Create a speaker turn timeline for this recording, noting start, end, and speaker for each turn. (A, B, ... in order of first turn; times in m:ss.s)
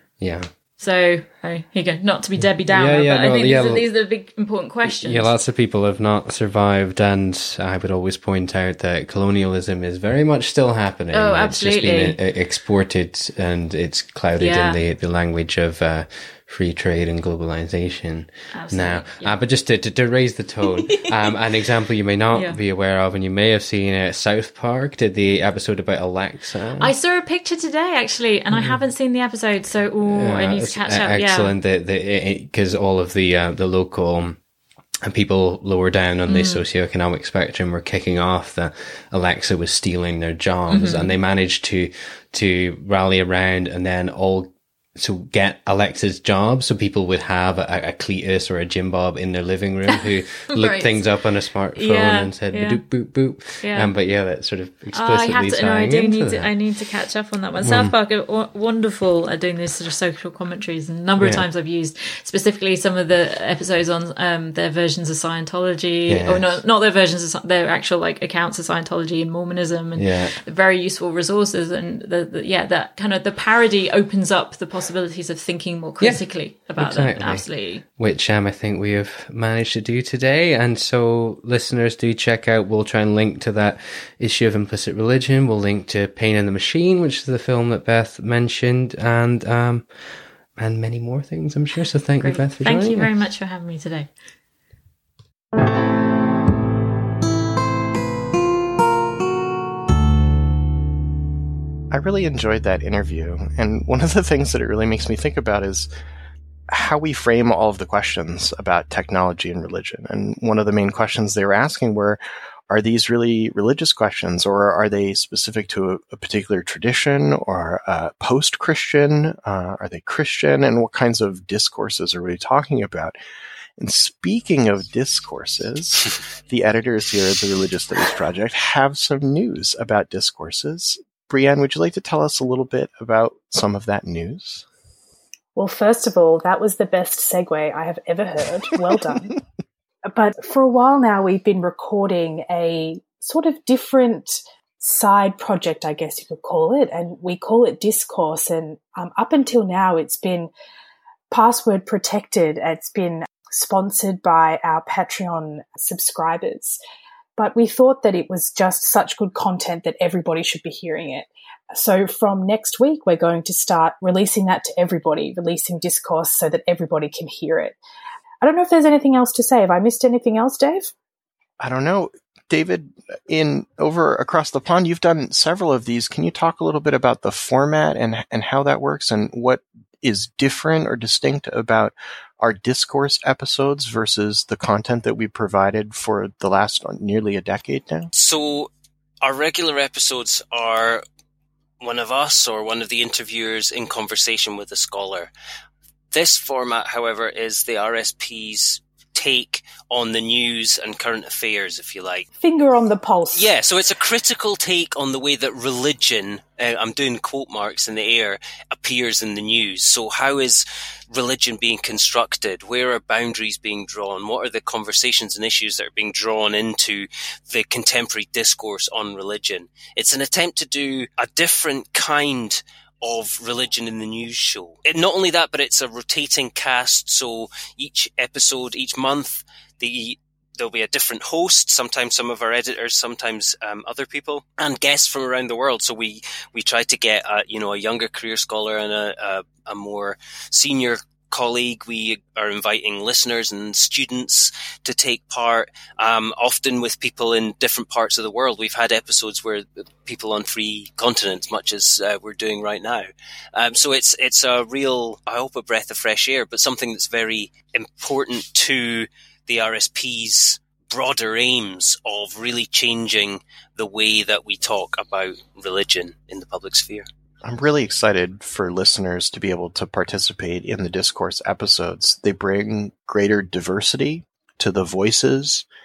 0:00.2-0:00.5 A
0:00.8-0:05.3 B
0:02.4-0:03.9 A
0:04.8-0:26.9 A
0:11.1-0:12.2 B
0:14.4-0:14.8 B
0:18.5-0:19.4 B
0:22.3-0:22.6 B
0:26.8-0:31.5 B
0:28.5-0:28.8 A
0:30.0-0:34.4 A
0:35.0-0:56.5 A
0:36.3-0:36.6 B
0:40.7-0:41.1 B
0:50.5-0:51.0 B
0:51.8-0:52.8 B
0:53.6-0:53.9 B
0:54.9-1:17.8 B
0:57.6-0:57.9 A
1:01.2-1:01.4 A
1:06.1-1:06.6 A
1:10.0-1:10.4 A
1:16.8-1:29.9 A
1:30.6-1:33.1 A
1:32.2-1:34.1 B
1:41.9-1:45.9 C
1:46.7-2:03.2 C
2:03.8-2:14.6 C
2:15.6-2:19.4 D
2:20.1-2:30.5 D
2:31.3-2:36.8 D
2:37.4-2:47.8 D
2:48.4-2:50.9 D
2:51.6-3:08.1 C
3:08.1-3:08.7 E
3:09.2-3:11.0 E
3:11.8-3:15.3 E
3:16.1-3:22.3 E
3:22.4-3:23.5 D
3:23.3-4:27.1 E
4:27.4-4:35.6 C